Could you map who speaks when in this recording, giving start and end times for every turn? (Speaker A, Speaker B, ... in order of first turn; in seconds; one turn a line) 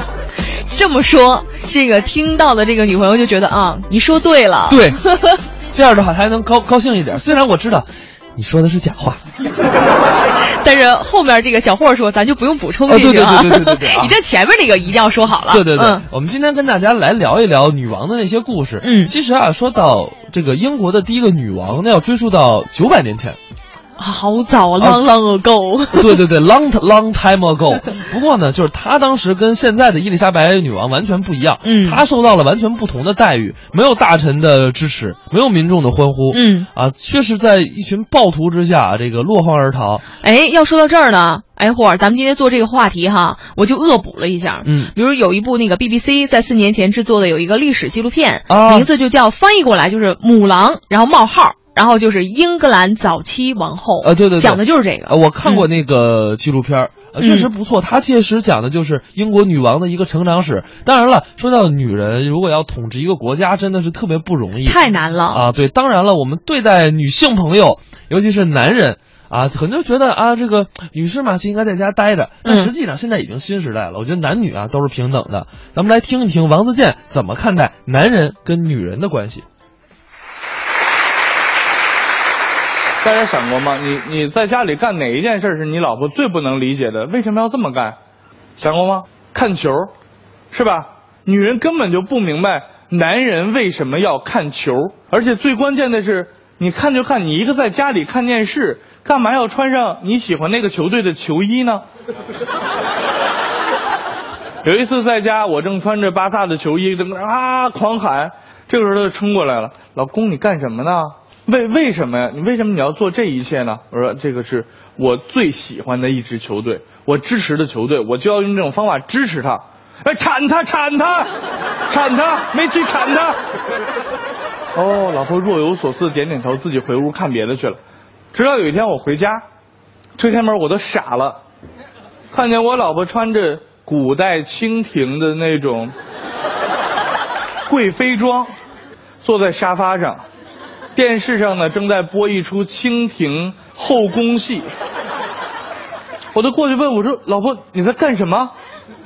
Speaker A: 0.7-5.4
Speaker B: 4.7-5.0
Speaker B: 5.7-9.2
Speaker A: 10.6-16.0
Speaker B: 12.9-14.1
Speaker B: 15.5-23.4
Speaker A: 18.8-19.1
Speaker A: 24.0-26.2
Speaker B: 24.8-25.0
Speaker B: 25.9-40.1
Speaker A: 31.6-32.0
Speaker A: 36.3-36.7
Speaker A: 40.2-55.6
Speaker B: 44.6-44.9
Speaker B: 48.5-48.9
Speaker B: 54.0-79.4
Speaker A: 57.2-57.5
Speaker A: 64.6-65.4
Speaker A: 72.4-72.7
Speaker C: 83.0-88.0
Speaker C: 88.6-89.9
Speaker C: 90.5-101.8
Speaker C: 104.6-121.3
Speaker C: 121.9-123.3
Speaker C: 124.7-127.8
Speaker C: 128.3-129.4
Speaker C: 130.2-131.4
Speaker C: 132.3-135.9
Speaker C: 137.7-138.5
Speaker C: 139.2-140.2
Speaker C: 140.9-144.7
Speaker C: 146.3-148.5